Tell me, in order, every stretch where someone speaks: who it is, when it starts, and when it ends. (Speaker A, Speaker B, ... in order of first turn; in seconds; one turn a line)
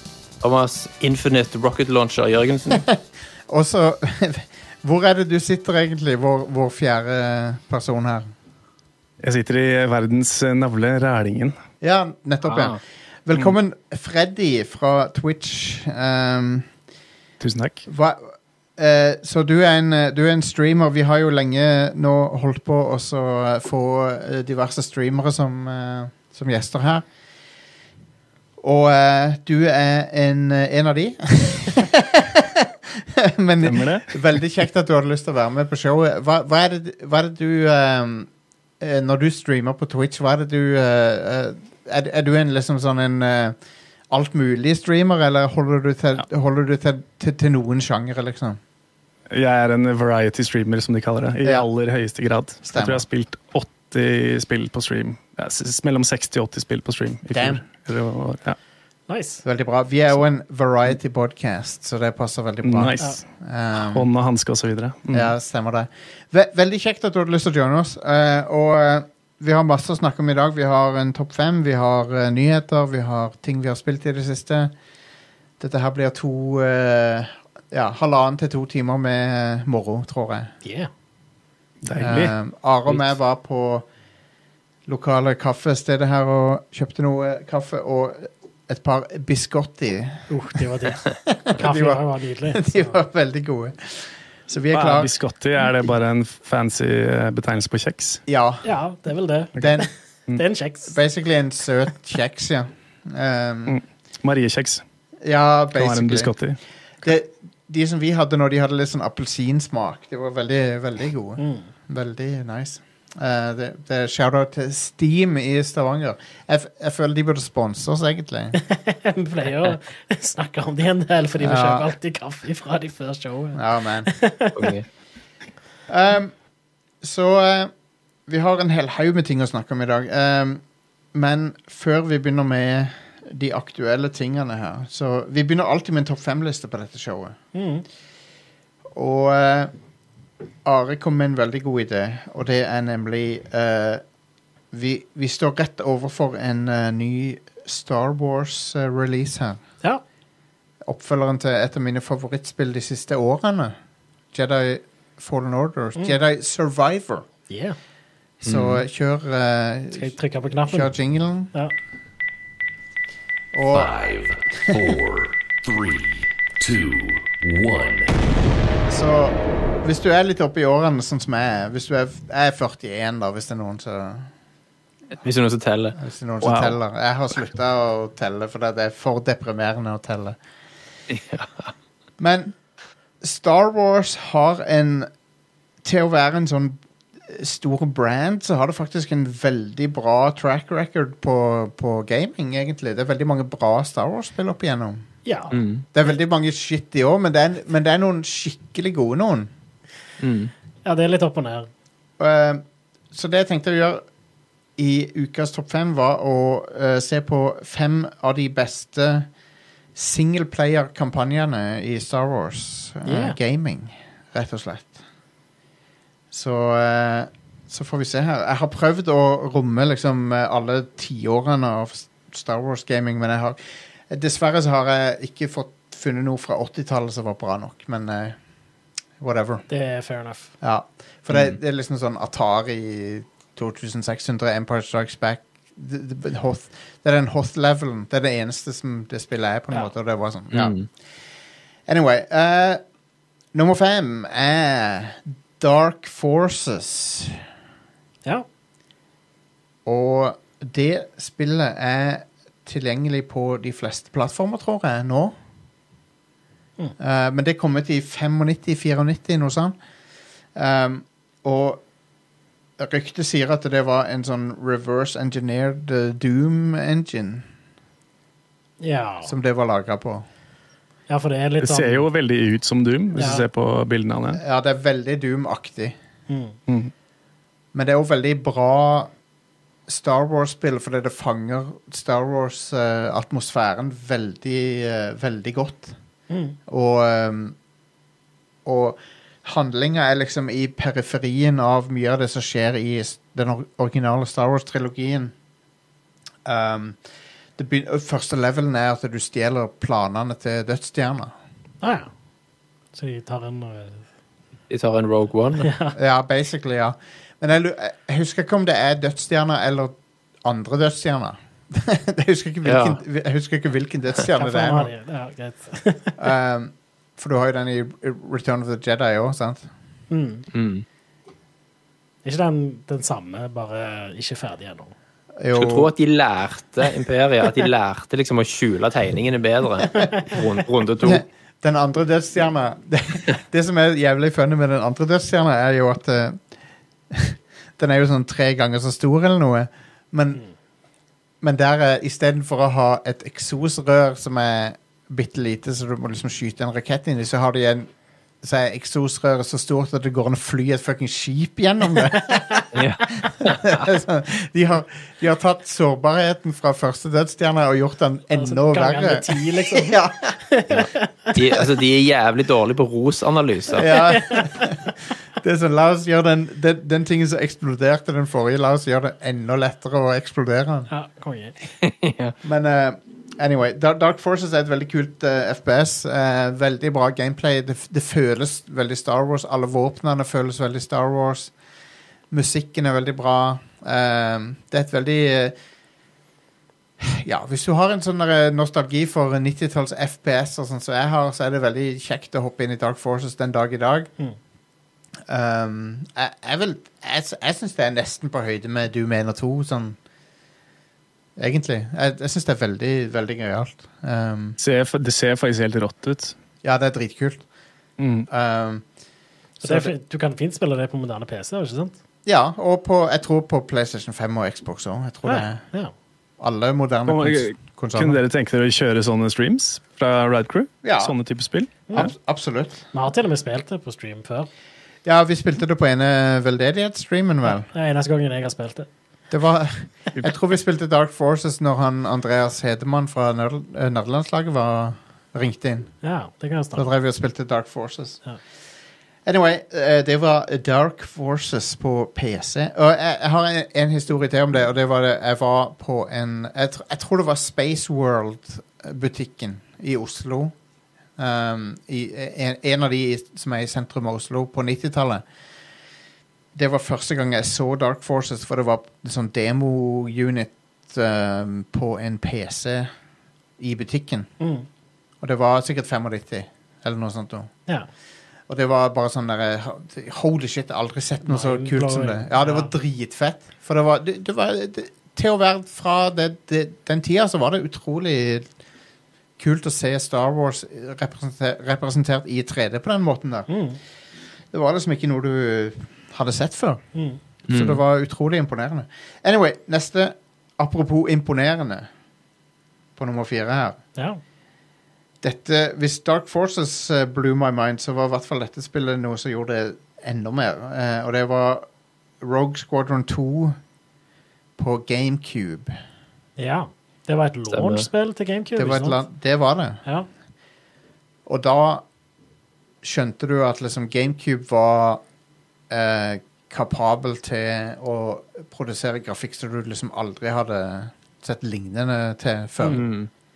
Speaker A: 0.4-2.9
Speaker B: 2.7-8.3
Speaker C: 9.2-11.6
Speaker B: 11.8-16.7
Speaker A: 12.4-12.8
Speaker C: 17.4-17.9
Speaker B: 17.9-27.0
Speaker B: 28.6-43.5
Speaker C: 33.6-34.2
Speaker B: 44.1-48.6
Speaker C: 49.3-58.6
Speaker B: 52.6-53.0
Speaker B: 57.3-57.6
Speaker D: 59.1-59.4
Speaker B: 59.4-64.1
Speaker C: 62.6-65.3
Speaker B: 65.1-74.7
Speaker B: 75.6-80.5
Speaker D: 80.6-80.9
Speaker C: 81.8-82.3
Speaker B: 82.0-83.9
Speaker B: 84.8-90.3
Speaker D: 90.3-93.0
Speaker B: 91.3-95.2
Speaker C: 94.7-98.2
Speaker B: 98.3-98.6
Speaker D: 98.6-101.0
Speaker B: 99.6-99.9
Speaker B: 100.9-103.8
Speaker C: 103.7-104.8
Speaker B: 105.2-106.3
Speaker C: 105.7-106.6
Speaker B: 107.0-118.6
Speaker D: 111.4-111.7
Speaker D: 118.5-124.7
Speaker B: 121.4-121.9
Speaker B: 123.5-124.1
Speaker A: 124.5-124.8
Speaker B: 125.9-126.3
Speaker B: 127.0-127.7
Speaker B: 128.3-130.6
Speaker B: 131.1-137.4
Speaker D: 137.5-137.8
Speaker B: 138.9-139.7
Speaker B: 140.6-144.0
Speaker B: 144.7-149.6
Speaker B: 150.8-153.7
Speaker B: 154.3-157.3
Speaker D: 157.5-157.8
Speaker B: 158.4-161.5
Speaker A: 158.4-158.8
Speaker D: 159.9-160.9
Speaker B: 163.5-163.9
Speaker E: 163.7-168.1
Speaker B: 164.7-165.0
Speaker B: 168.9-174.3
Speaker A: 175.2-176.0
Speaker B: 175.9-180.4
Speaker C: 176.4-176.8
Speaker A: 181.1-181.7
Speaker B: 182.2-182.5
Speaker B: 183.2-185.1
Speaker B: 185.8-195.1
Speaker D: 195.2-195.5
Speaker A: 195.5-195.8
Speaker B: 195.9-199.5
Speaker A: 200.2-200.5
Speaker D: 200.8-201.7
Speaker B: 202.2-204.0
Speaker B: 204.8-209.3
Speaker B: 209.9-215.0
Speaker D: 213.0-213.4
Speaker B: 216.3-223.6
Speaker B: 224.1-228.3
Speaker B: 229.2-229.6
Speaker D: 229.7-230.5
Speaker B: 230.6-240.8
Speaker A: 231.3-231.6
Speaker A: 240.5-240.8
Speaker B: 241.9-242.8
Speaker B: 243.5-247.4
Speaker B: 249.8-255.3
Speaker B: 257.0-259.7
Speaker B: 260.5-261.8
Speaker B: 262.8-267.4
Speaker D: 268.8-269.3
Speaker B: 269.2-270.2
Speaker D: 271.1-272.1
Speaker C: 271.6-274.4
Speaker D: 273.1-273.4
Speaker B: 274.3-275.9
Speaker D: 276.3-276.6
Speaker B: 277.7-279.1
Speaker B: 279.9-285.9
Speaker D: 286.3-286.6
Speaker B: 286.7-287.5
Speaker B: 288.6-295.3
Speaker B: 296.4-297.0
Speaker B: 297.6-301.3
Speaker D: 301.8-302.1
Speaker D: 302.9-304.0
Speaker A: 304.7-305.7
Speaker D: 305.6-305.9
Speaker B: 305.9-314.9
Speaker A: 312.6-313.0
Speaker D: 314.4-316.2
Speaker B: 316.2-319.7
Speaker D: 320.1-320.4
Speaker A: 320.5-320.8
Speaker D: 322.2-324.9
Speaker B: 325.4-325.9
Speaker A: 325.5-331.2
Speaker B: 331.0-336.4
Speaker B: 337.1-340.4
Speaker B: 341.4-347.9
Speaker B: 348.4-360.2
Speaker D: 352.4-352.6
Speaker A: 352.7-353.8
Speaker D: 358.3-361.4
Speaker A: 360.7-363.9
Speaker B: 363.7-370.9
Speaker D: 363.9-364.7
Speaker D: 370.9-371.6
Speaker A: 371.8-372.3
Speaker B: 372.4-381.5
Speaker B: 382.3-385.5
Speaker B: 387.0-394.1
Speaker B: 395.3-400.0
Speaker B: 401.4-404.6
Speaker C: 404.6-406.4
Speaker B: 406.6-407.4
Speaker C: 408.0-408.3
Speaker B: 408.3-408.8
Speaker D: 409.6-411.9
Speaker B: 412.2-415.6
Speaker D: 415.2-415.9
Speaker B: 416.4-418.2
Speaker C: 417.1-422.1
Speaker B: 420.8-421.2
Speaker D: 421.9-422.1
Speaker B: 421.9-422.9
Speaker D: 422.9-424.5
Speaker B: 425.0-427.7
Speaker D: 427.4-428.9
Speaker B: 429.3-435.9
Speaker D: 436.0-436.9
Speaker B: 436.7-438.2
Speaker B: 439.2-450.5
Speaker B: 451.2-455.2
Speaker B: 456.5-462.9
Speaker B: 463.6-464.3
Speaker D: 464.4-464.7
Speaker B: 465.2-467.5
Speaker B: 468.5-478.5
Speaker D: 471.2-472.7
Speaker B: 479.4-483.5
Speaker D: 483.5-483.8
Speaker B: 484.5-486.8
Speaker D: 486.9-487.2
Speaker A: 487.5-487.8
Speaker B: 487.5-491.9
Speaker B: 493.0-493.8
Speaker D: 493.9-494.2
Speaker B: 495.2-501.6
Speaker B: 502.2-503.6
Speaker B: 504.6-505.8
Speaker D: 506.4-509.0
Speaker A: 507.5-507.9
Speaker B: 508.6-509.8
Speaker B: 511.3-511.8
Speaker B: 512.8-515.0
Speaker B: 515.7-522.8
Speaker A: 522.7-523.1